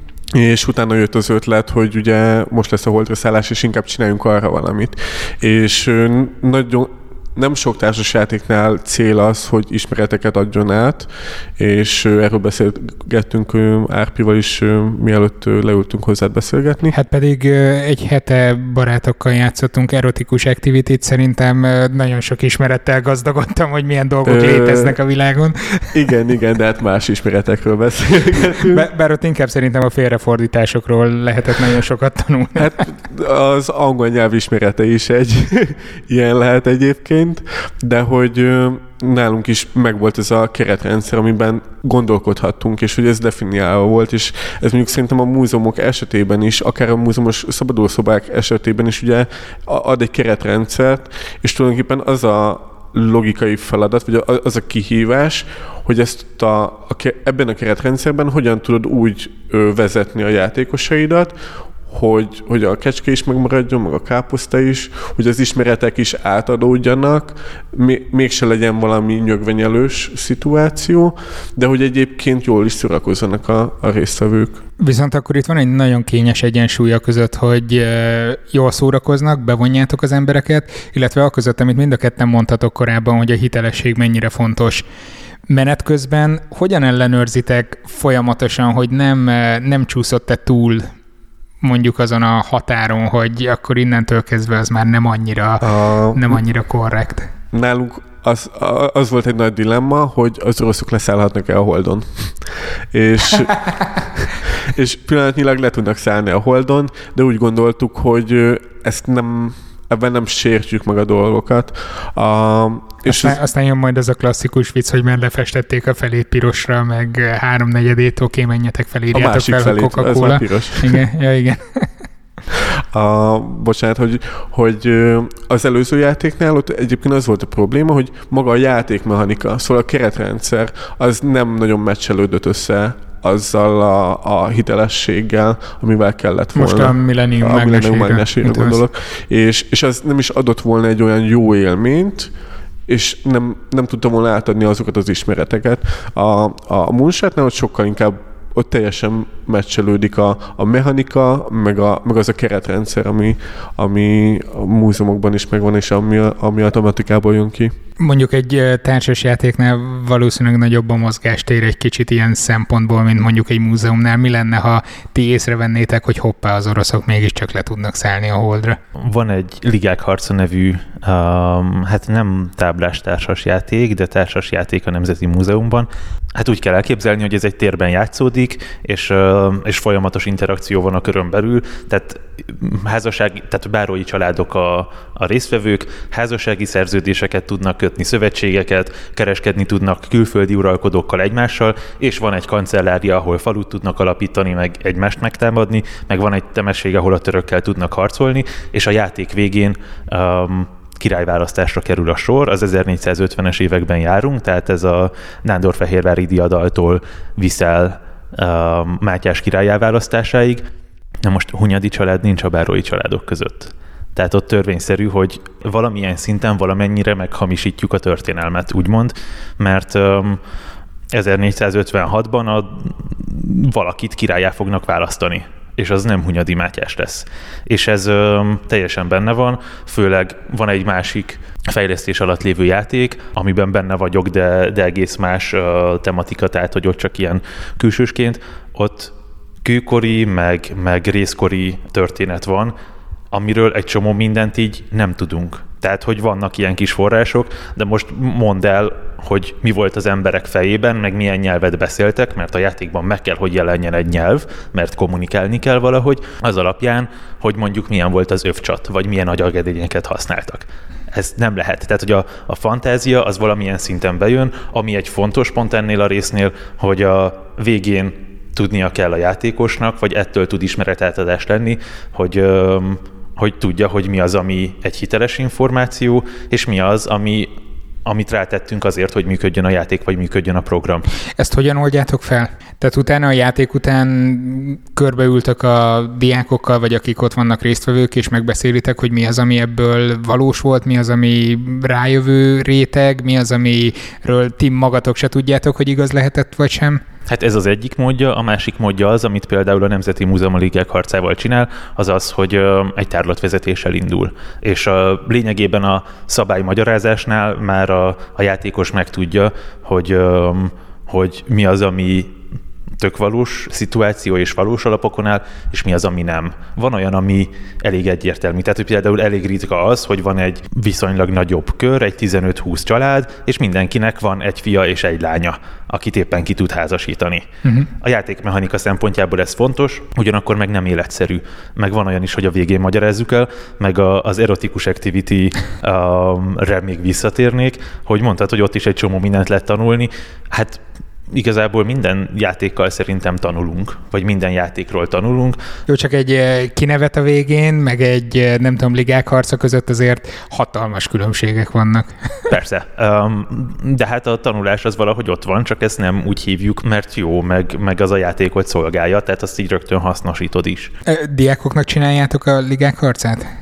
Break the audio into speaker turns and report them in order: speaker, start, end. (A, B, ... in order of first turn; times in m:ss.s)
0:00.3-0:16.9 A
0:16.9-0:26.0 B
0:24.2-0:25.0 A
0:25.9-0:28.9 A
0:28.6-0:32.9 B
0:32.6-1:01.4 A
1:01.9-1:14.6 A
1:14.8-1:24.8 B
1:25.5-1:30.9 B
1:31.6-1:37.3 B
1:35.6-1:36.4 A
1:37.5-1:53.4 A
1:53.1-2:01.9 B
1:59.1-2:01.0 A
2:02.5-2:22.3 A
2:16.6-2:18.8 B
2:22.9-2:37.8 A
2:38.0-2:48.8 B
2:49.0-3:30.6 C
3:31.2-3:40.4 C
3:41.1-3:59.1 C
3:59.6-4:02.8 C
4:03.3-4:37.5 C
4:38.0-4:41.1 C
4:41.4-4:57.0 B
4:57.3-5:12.4 C
5:13.0-5:27.5 C
5:28.0-5:45.6 C
5:45.9-5:52.4 B
5:52.5-6:00.9 C
6:01.1-6:03.5 B